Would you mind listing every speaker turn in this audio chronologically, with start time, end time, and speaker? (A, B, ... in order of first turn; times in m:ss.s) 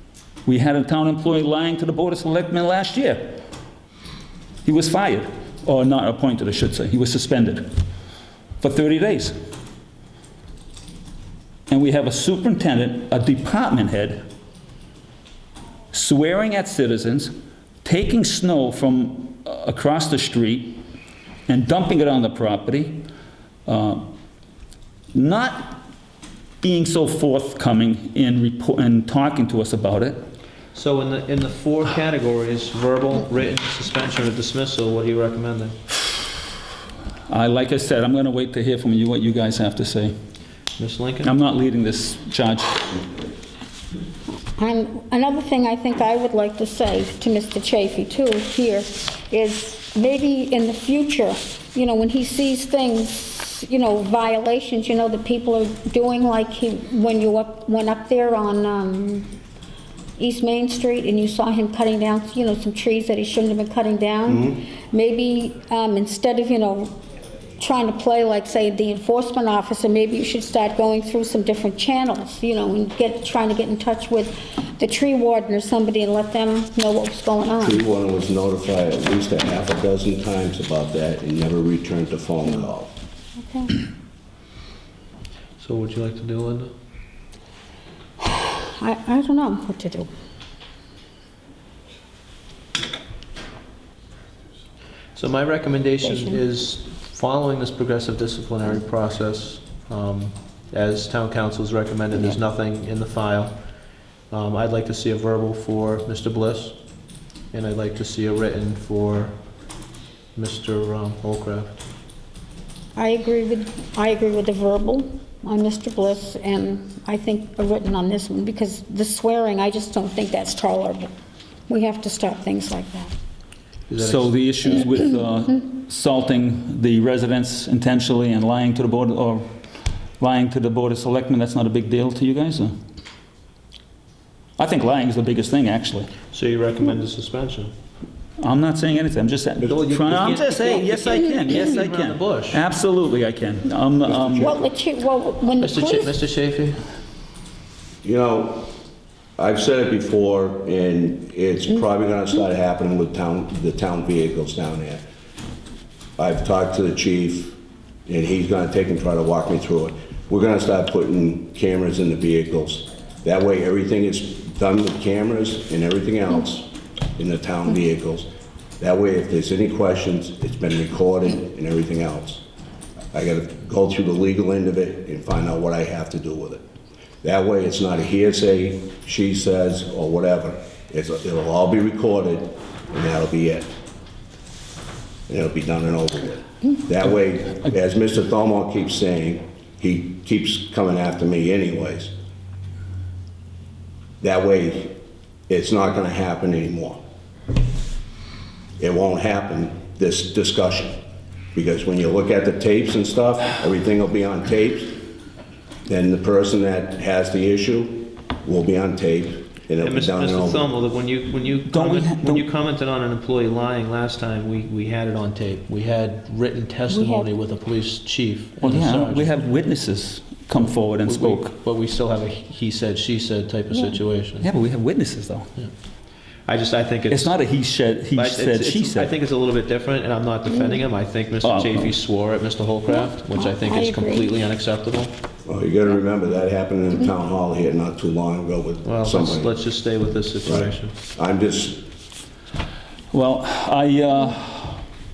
0:00.4-0:03.4 A
0:04.6-0:07.8 A
0:08.6-0:09.4 A
0:11.7-0:14.2 A
0:15.9-0:17.3 A
0:17.8-0:20.8 A
0:21.5-0:23.1 A
0:23.7-0:24.1 A
0:25.1-0:25.9 A
0:26.6-0:30.3 A
0:30.7-0:35.8 B
0:37.3-0:40.1 A
0:40.8-0:41.3 B
0:41.2-0:43.0 A
0:44.5-0:59.3 C
1:00.2-1:07.0 C
1:04.3-1:04.6 D
1:07.6-1:17.8 C
1:17.6-1:22.9 D
1:23.4-1:23.7 C
1:25.6-1:26.7 B
1:28.2-1:30.1 C
1:35.2-1:43.6 B
1:36.0-1:36.4 C
1:44.3-1:46.8 B
1:47.5-1:49.3 B
1:50.3-1:51.8 B
1:53.0-2:01.1 C
2:01.7-2:03.1 C
2:03.9-2:04.3 B
2:04.0-2:09.5 A
2:10.2-2:12.8 A
2:14.6-2:16.1 A
2:16.3-2:17.7 B
2:18.4-2:24.6 A
2:19.6-2:22.6 B
2:24.4-2:26.1 C
2:25.6-2:26.8 B
2:28.0-2:28.7 D
2:29.4-2:35.0 D
2:36.2-2:52.4 D
2:53.1-2:56.6 D
2:57.2-3:03.7 D
3:05.3-3:12.1 D
3:14.2-3:17.0 D
3:18.8-3:21.0 D
3:21.5-3:25.0 D
3:25.9-3:30.7 D
3:29.8-3:39.4 B
3:31.7-3:32.4 A
3:36.9-3:37.3 C
3:38.6-3:41.5 A
3:40.9-3:44.5 B
3:43.7-3:44.0 C
3:44.4-3:45.5 A
3:46.4-3:47.3 B
3:47.1-3:49.1 A
3:48.1-3:55.1 B
3:51.4-3:51.9 A
3:52.9-3:54.3 C
3:55.4-3:59.5 D
3:58.8-4:00.9 B
4:00.4-4:01.9 D
4:03.1-4:04.8 A